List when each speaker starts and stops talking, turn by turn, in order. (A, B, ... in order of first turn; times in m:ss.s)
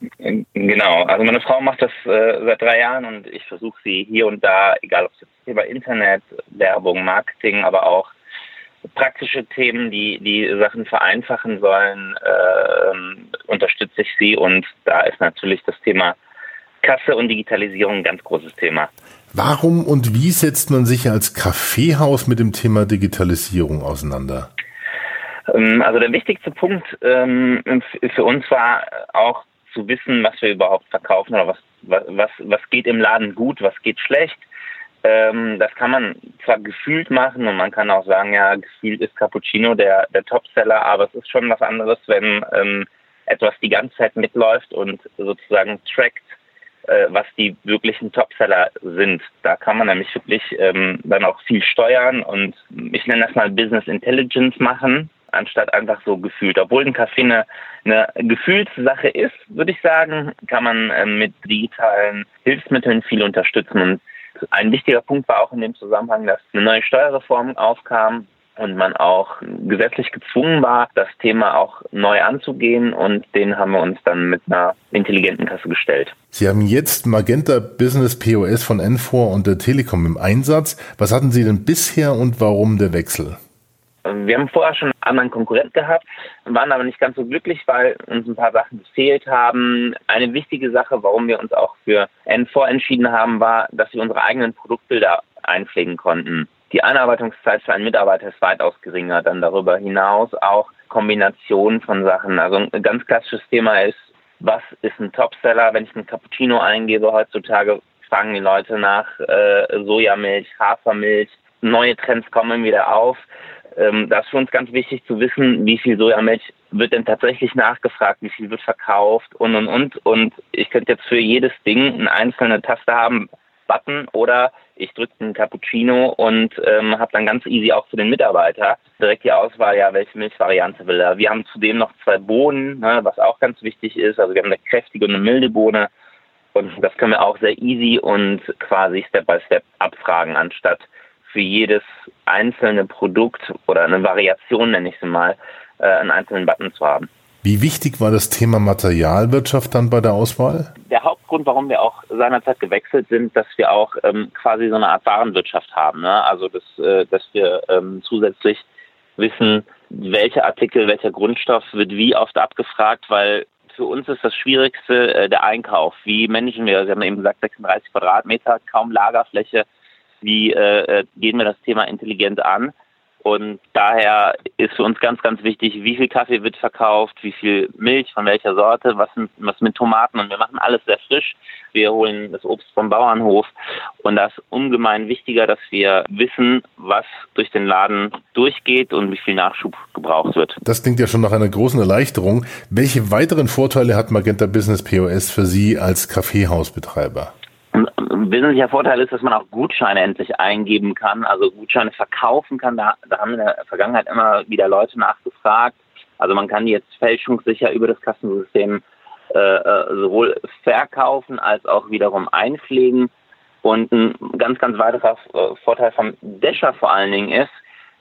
0:00.2-0:08.1 A
0:08.9-0:16.2 A
0:16.8-0:18.9 A
0:19.3-0:24.5 B
0:25.5-0:34.4 A
0:35.0-0:46.3 A
0:46.9-1:16.1 A
1:16.3-1:23.4 B
1:24.0-1:53.2 A
1:53.8-2:15.9 A
2:16.6-2:27.1 A
2:27.4-2:30.7 B
2:30.9-2:38.6 A
2:39.2-2:49.6 A
2:50.2-3:10.6 A
3:10.6-3:17.3 B
3:17.7-3:33.1 A
3:33.6-3:37.5 A